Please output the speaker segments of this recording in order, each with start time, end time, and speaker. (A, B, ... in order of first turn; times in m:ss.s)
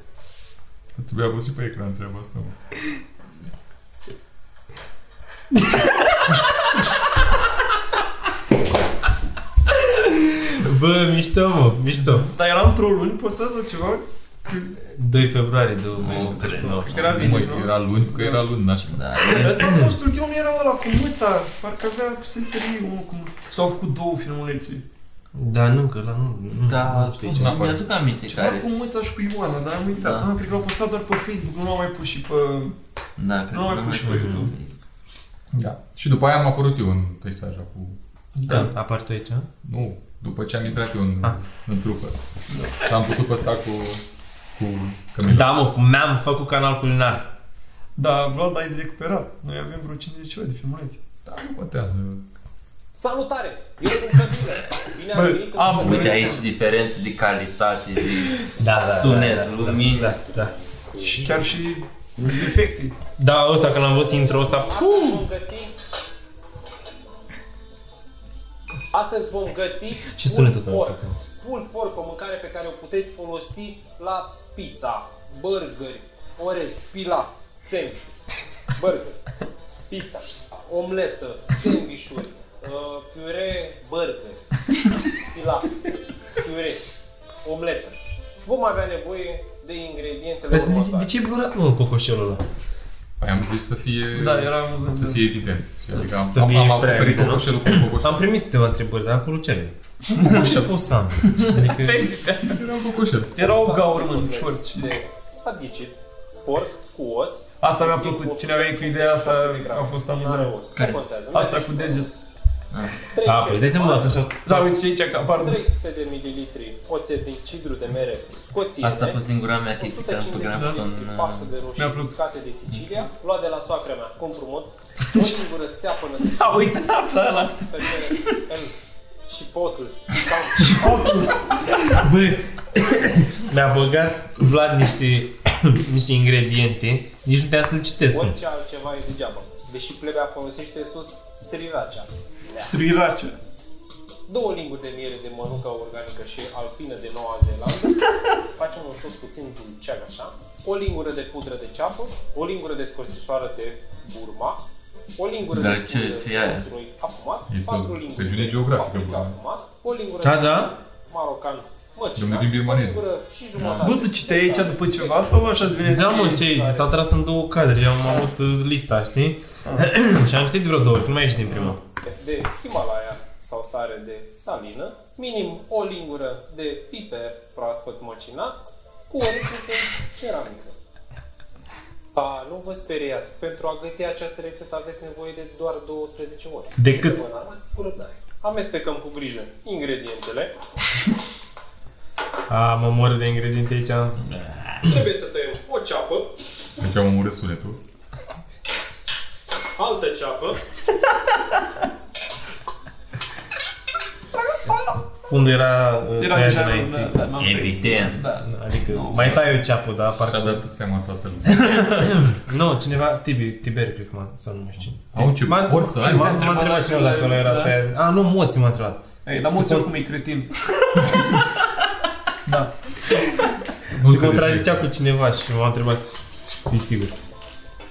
0:00.9-0:02.5 A
0:05.5-0:05.9 B
0:09.8-0:12.3 B
0:12.2-0:14.7 C
0:14.8-0:17.1 B
0:16.0-0:17.2 D
0:16.0-0:18.4 C
0:16.9-0:19.0 A
0:18.8-0:19.6 D
0:19.3-0:24.8 C
0:19.5-0:19.9 B
0:25.3-0:27.6 B
0:26.6-0:28.6 D
0:27.3-0:27.8 A
0:28.2-0:32.8 C
0:30.0-0:30.3 D
0:33.2-0:34.8 D
0:33.5-0:34.5 C
0:34.1-0:34.5 B
0:35.5-0:38.0 A
0:38.4-0:38.7 C
0:38.5-0:39.5 B
0:39.6-0:42.2 A
0:42.5-0:42.8 C
0:42.8-0:44.0 A
0:44.5-0:45.6 A
0:45.2-0:47.3 B
0:48.0-0:51.0 C
0:51.2-0:52.2 A
0:52.9-0:56.4 E
0:55.1-0:56.4 C
0:55.8-1:00.2 D
0:58.6-1:00.5 B
1:01.0-1:02.9 C
1:03.2-1:05.2 B
1:03.5-1:05.7 E
1:08.9-1:18.2 E
1:10.1-1:11.2 B
1:18.7-1:19.2 E
1:19.9-1:24.4 E
1:25.2-1:25.8 E
1:26.4-1:26.8 E
1:27.4-1:31.1 E
1:30.5-1:32.4 B
1:33.2-1:38.3 A
1:34.1-1:35.2 C
1:35.9-1:42.2 B
1:41.6-1:42.6 C
1:42.5-1:43.4 A
1:43.3-1:44.9 C
1:43.4-1:52.2 E
1:47.6-1:50.6 C
1:51.3-1:52.1 C
1:52.7-1:53.0 D
1:53.1-1:54.2 E
1:53.2-1:54.8 B
1:54.4-1:55.6 C
1:55.2-1:59.2 E
1:58.8-2:01.5 D
1:59.7-2:08.7 E
2:00.5-2:00.8 C
2:01.8-2:02.1 C
2:06.3-2:08.2 C
2:09.3-2:11.0 E
2:10.6-2:11.7 C
2:11.8-2:18.4 B
2:18.1-2:22.7 E
2:22.6-2:23.4 C
2:24.3-2:34.6 E
2:35.2-2:47.0 E
2:35.5-2:36.6 D
2:37.5-2:39.4 A
2:40.2-2:40.7 B
2:42.2-2:43.0 A
2:43.6-2:43.9 A
2:43.8-2:46.5 C
2:45.8-2:51.8 B
2:49.6-2:49.9 C
2:51.5-2:51.8 C
2:52.0-2:58.6 E
2:59.1-3:00.7 E
3:02.1-3:10.5 E
3:06.8-3:07.2 B
3:12.5-3:14.2 B
3:14.8-3:16.3 E
3:16.8-3:17.8 A
3:19.8-3:20.6 E
3:25.2-3:27.5 B
3:26.2-3:29.4 C
3:27.4-3:28.2 D
3:28.4-3:30.6 B
3:30.2-3:32.0 A
3:32.0-3:39.9 B
3:35.1-3:36.6 A
3:36.0-3:37.8 C
3:39.2-3:41.3 C
3:43.9-3:44.8 A
3:44.0-3:47.1 B